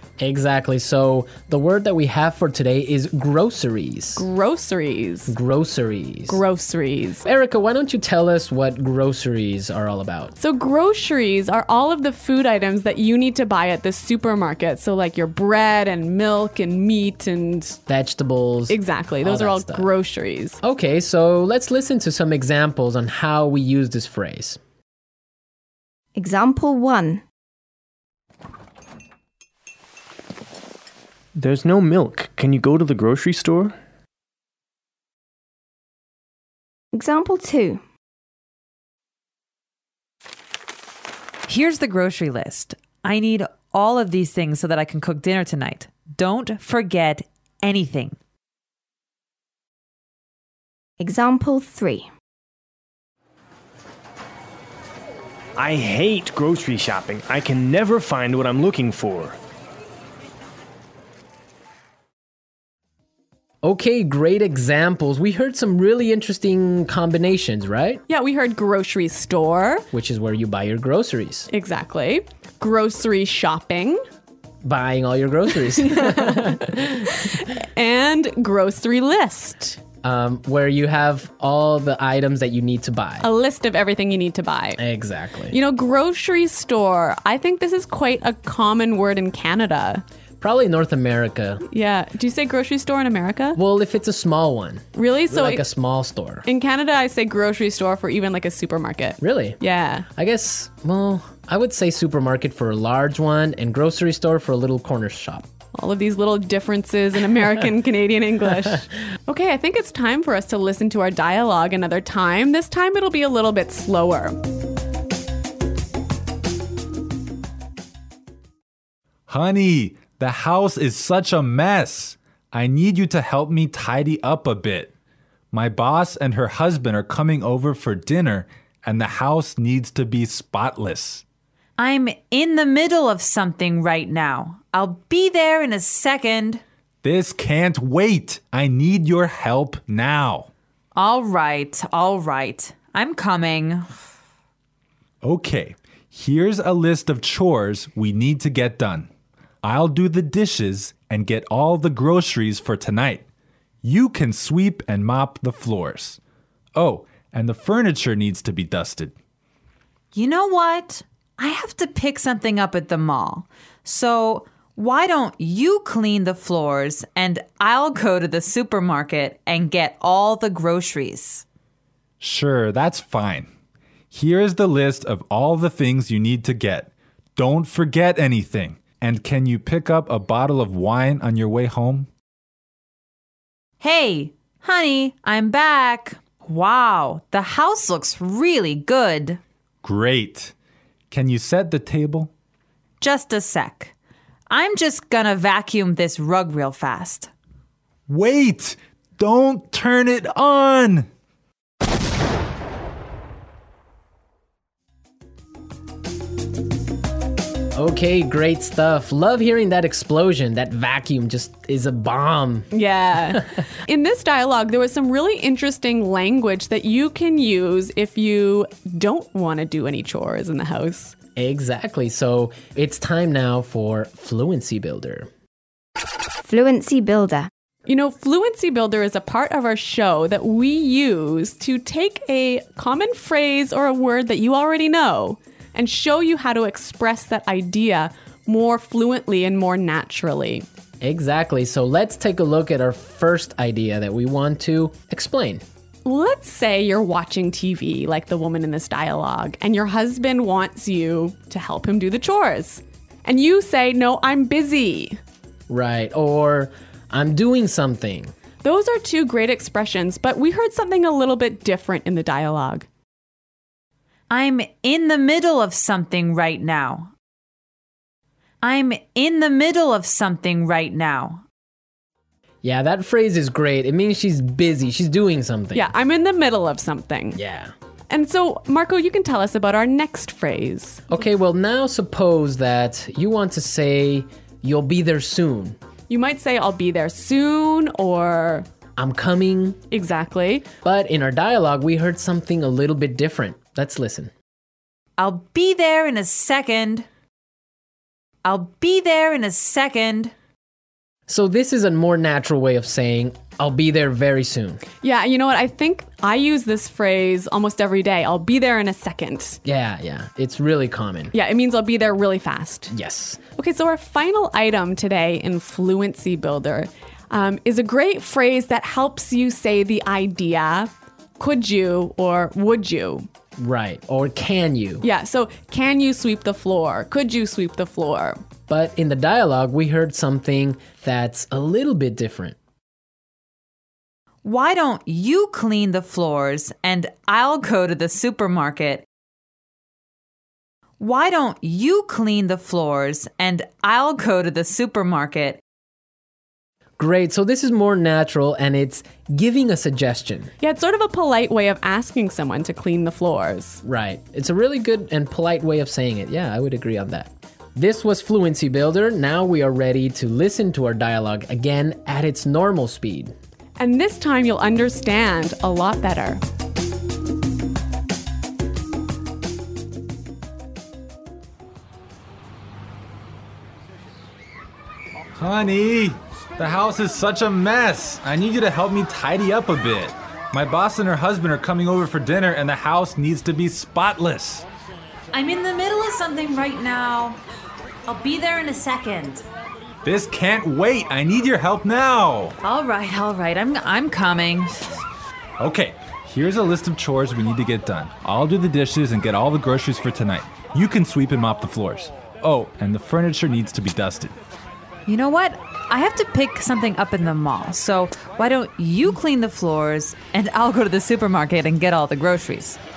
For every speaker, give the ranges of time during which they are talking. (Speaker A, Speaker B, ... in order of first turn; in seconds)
Speaker A: 0.2-4.2, 5.3-6.4, 7.2-10.3, 17.9-19.9, 20.6-24.6, 63.6-68.0, 69.9-71.5, 74.6-77.1, 80.0-83.3, 84.8-85.6, 90.4-91.6, 93.6-96.5, 99.2-99.6, 100.1-105.5, 207.7-212.7, 221.4-225.3, 241.0-245.6, 255.7-258.3, 272.6-275.9, 277.4-277.7, 281.1-285.8, 289.0-289.8, 290.8-294.3, 301.3-304.9, 309.6-311.3, 312.9-313.4, 323.6-325.1, 328.7-332.6, 347.0-350.5, 353.8-363.4
Speaker B: 4.2-5.4, 6.3-7.3, 10.4-17.8, 18.7-20.6, 68.1-69.9, 71.5-74.0, 75.7-79.8, 83.2-84.8, 85.5-90.0, 91.7-93.6, 95.0-95.7, 96.5-100.1, 105.7-114.4, 212.7-221.2, 227.9-240.7, 246.1-255.2, 258.6-262.9, 275.7-277.4, 278.1-281.1, 286.1-288.7, 289.9-290.7, 305.0-309.6, 311.3-312.9, 313.5-323.3, 325.0-328.4, 350.6-353.8, 363.8-366.4
Speaker C: 26.2-27.2, 36.9-37.8, 51.0-52.1, 226.4-227.5
Speaker D: 31.4-33.8, 55.6-59.4
Speaker E: 41.5-48.2, 131.8-136.6, 140.9-143.9, 160.1-171.4, 183.8-189.4, 193.0-193.9, 194.5-197.3, 264.3-267.1, 268.6-271.4, 295.2-297.1, 298.4-300.3, 334.4-339.0, 341.0-345.6, 385.3-387.4, 388.1-389.4, 392.6-395.0, 405.1-412.8
Speaker F: 119.3-124.9, 125.5-131.2, 137.0-140.5, 145.2-149.1, 149.6-153.2, 153.8-156.2, 156.8-159.2, 172.2-173.5, 174.1-182.1, 189.8-190.5, 191.1-192.3, 198.1-201.1, 375.4-384.7, 390.0-392.6, 395.6-404.4